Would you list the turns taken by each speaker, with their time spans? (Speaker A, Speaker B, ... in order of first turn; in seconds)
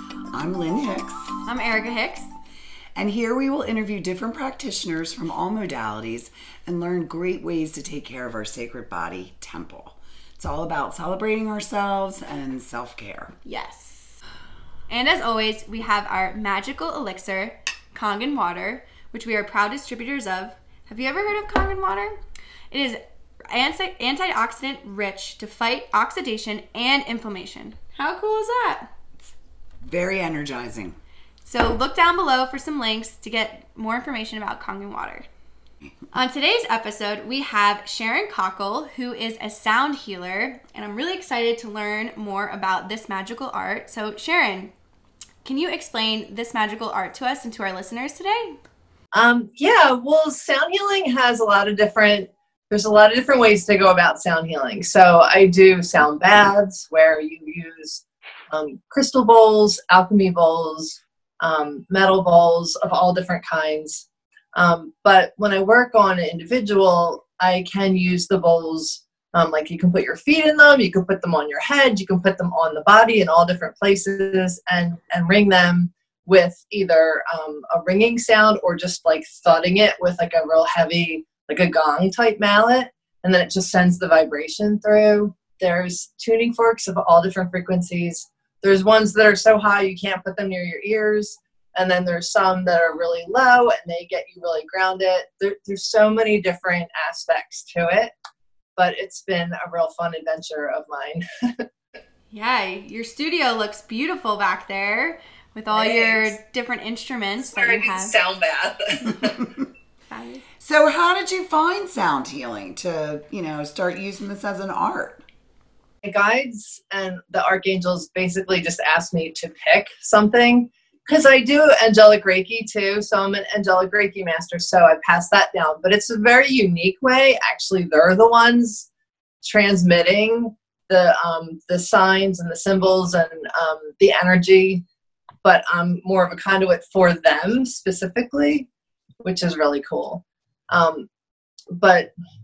Speaker A: 0.3-1.4, 2.9-13.3, 29.8-31.0, 110.6-115.2
Speaker B: 1.4-2.3, 13.4-14.2, 14.9-22.2, 22.7-28.9, 31.4-35.3, 36.1-44.7, 45.4-48.6, 102.3-108.1, 110.1-110.5
Speaker C: 49.1-98.1, 98.8-101.7, 105.7-106.3, 107.4-109.5, 116.0-128.9, 129.4-134.8, 135.4-138.7, 139.2-141.1, 141.8-142.1